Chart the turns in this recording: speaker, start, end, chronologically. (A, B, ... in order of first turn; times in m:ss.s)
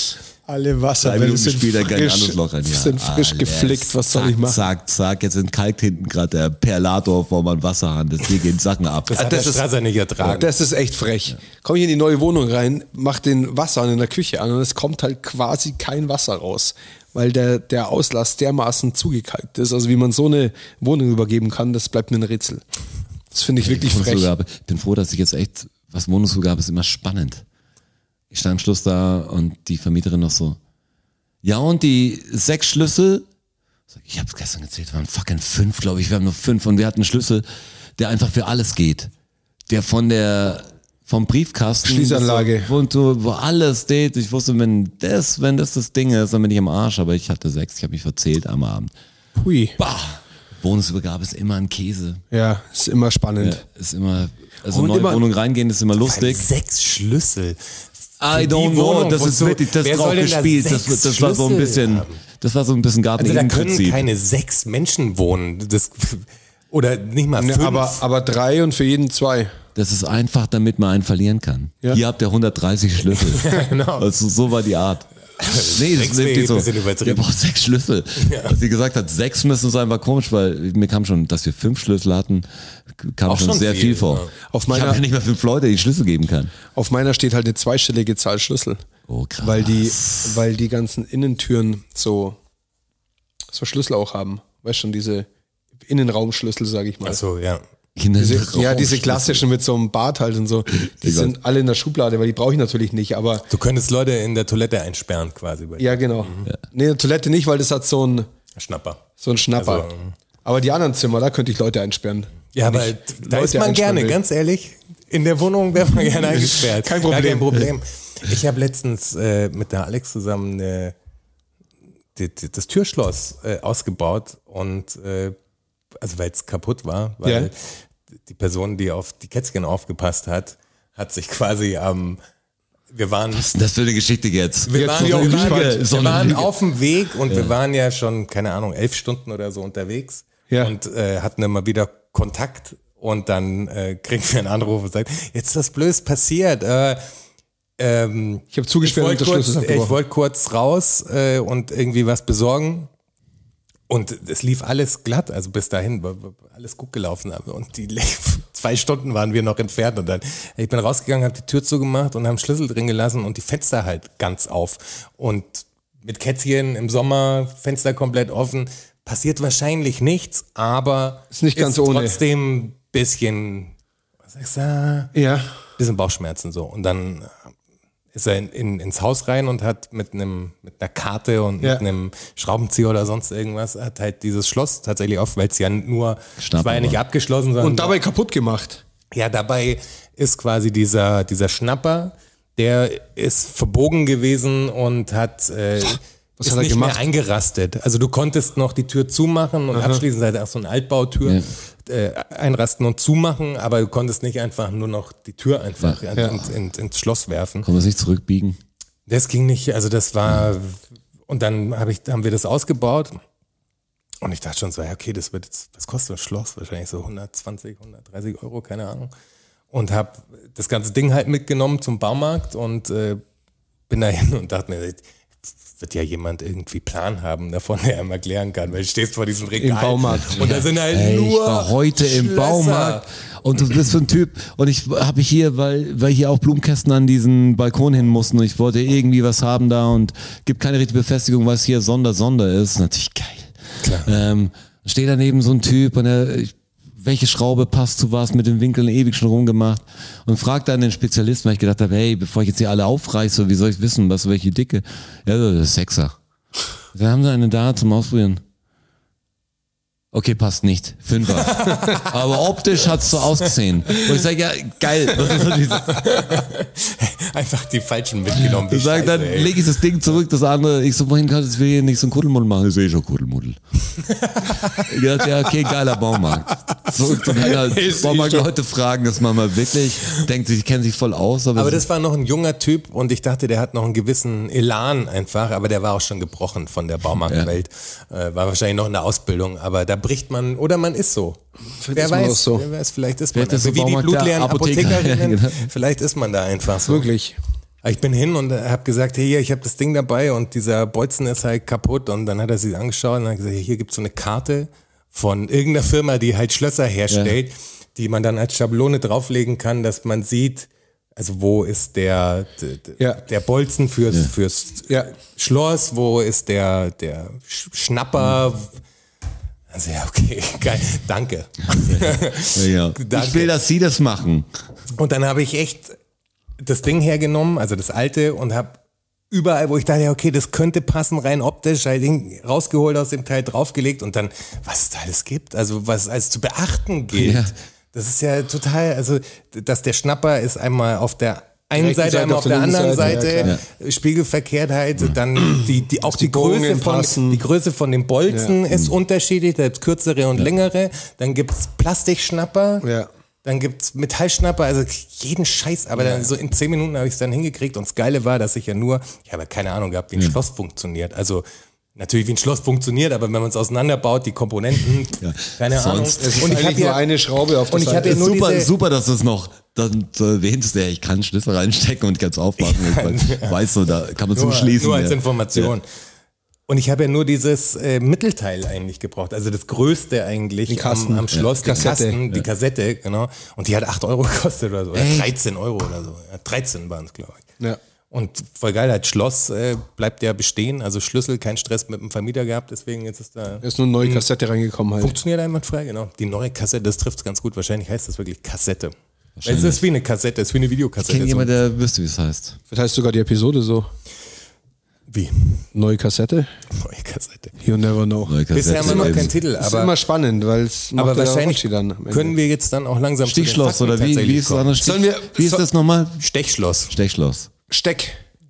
0:00.5-0:04.6 A
0:01.0-0:09.4 B
0:09.1-0:10.5 C
0:09.1-0:09.6 A
0:10.2-0:22.6 A
0:23.3-0:24.3 A
0:23.6-0:27.4 B
0:28.3-0:30.6 B
0:31.4-0:33.2 B
0:33.9-0:37.4 B
0:38.0-0:39.1 B
0:39.7-0:48.9 B
0:41.8-0:42.7 A
0:49.4-0:49.8 A
0:49.8-0:52.2 B
0:52.3-0:53.6 A
0:53.4-0:56.5 B
0:54.6-0:55.2 A
0:56.0-0:57.6 C
0:58.2-1:04.1 B
0:58.3-1:02.2 C
1:03.2-1:08.0 C
1:07.4-1:09.5 A
1:09.7-1:26.5 B
1:13.2-1:14.1 C
1:15.4-1:17.2 C
1:18.2-1:18.5 C
1:23.3-1:24.3 C
1:24.5-1:25.0 A
1:26.7-1:28.8 A
1:29.1-1:30.4 B
1:29.4-1:32.4 A
1:33.5-1:35.3 A
1:35.8-1:37.2 A
1:37.0-1:37.6 C
1:38.0-1:39.4 B
1:38.2-1:43.5 A
1:40.8-1:41.4 B
1:43.5-1:46.5 C
1:45.8-1:48.3 A
1:48.5-1:50.1 C
1:49.2-1:49.9 A
1:50.4-1:54.2 A
1:52.5-2:00.9 C
1:56.2-1:57.7 A
2:02.2-2:05.4 C
2:06.0-2:07.7 C
2:07.2-2:07.5 A
2:08.2-2:12.2 C
2:12.9-2:13.5 C
2:13.3-2:16.5 B
2:14.7-2:27.0 C
2:14.7-2:15.8 A
2:17.3-2:17.5 B
2:27.8-2:32.9 C
2:28.5-2:29.9 A
2:33.9-2:53.7 C
2:51.3-2:52.2 A
2:54.3-2:55.1 C
2:55.1-2:55.5 A
2:55.8-2:57.4 C
2:58.1-3:08.0 C
3:06.4-3:07.0 B
3:07.6-3:08.8 A
3:09.1-3:27.7 C
3:16.4-3:17.1 A
3:19.7-3:20.0 A
3:26.2-3:26.4 A
3:27.6-3:28.6 B
3:29.1-3:33.2 C
3:34.2-3:39.1 C
3:39.7-3:43.2 C
3:43.9-3:45.0 C
3:45.8-3:53.0 C
3:49.6-3:50.6 A
3:50.1-4:16.1 B
4:03.8-4:04.1 C
4:16.9-4:18.4 B
4:20.1-4:26.1 B
4:21.4-4:22.2 C
4:23.4-4:24.1 C
4:25.2-4:29.6 C
4:28.4-4:33.6 B
4:34.0-4:34.9 C
4:34.8-4:41.8 B
4:37.2-4:38.5 A
4:41.5-4:51.4 C
4:47.2-4:47.5 B
4:51.8-4:52.7 A
4:51.9-4:57.1 C
4:53.3-4:55.7 B
4:56.8-4:57.4 A
4:57.8-5:18.8 C
5:07.1-5:07.3 B
5:19.7-5:23.5 C
5:21.8-5:24.5 B
5:24.9-5:26.0 C
5:26.6-5:28.8 C
5:29.3-5:52.8 C
5:37.1-5:37.5 B
5:41.8-5:43.5 A
5:45.6-5:47.4 A
5:48.3-5:48.5 A
5:52.8-5:53.1 A
5:53.4-6:01.4 C
5:56.0-5:56.3 A
6:02.0-6:07.1 C
6:05.2-6:06.6 B
6:06.2-6:08.2 A
6:07.7-6:08.7 C
6:08.0-6:15.7 B
6:12.6-6:13.7 C
6:14.3-6:15.8 C
6:16.7-6:27.4 C
6:20.7-6:22.2 A
6:21.3-6:22.4 B
6:24.9-6:25.3 B
6:28.1-6:34.2 C
6:33.6-6:35.2 A
6:35.0-6:41.5 C
6:39.4-6:39.8 B
6:41.0-6:42.6 B
6:42.7-6:43.9 A
6:45.1-6:45.6 C
6:45.7-6:46.5 A
6:46.7-6:47.6 C
6:47.6-6:52.3 A
6:48.3-6:49.3 B
6:48.5-6:49.9 C
6:50.9-6:54.8 C
6:53.2-6:56.2 B
6:54.8-6:55.6 A
6:56.2-6:56.9 C
6:56.9-6:57.5 B
6:57.7-6:58.2 A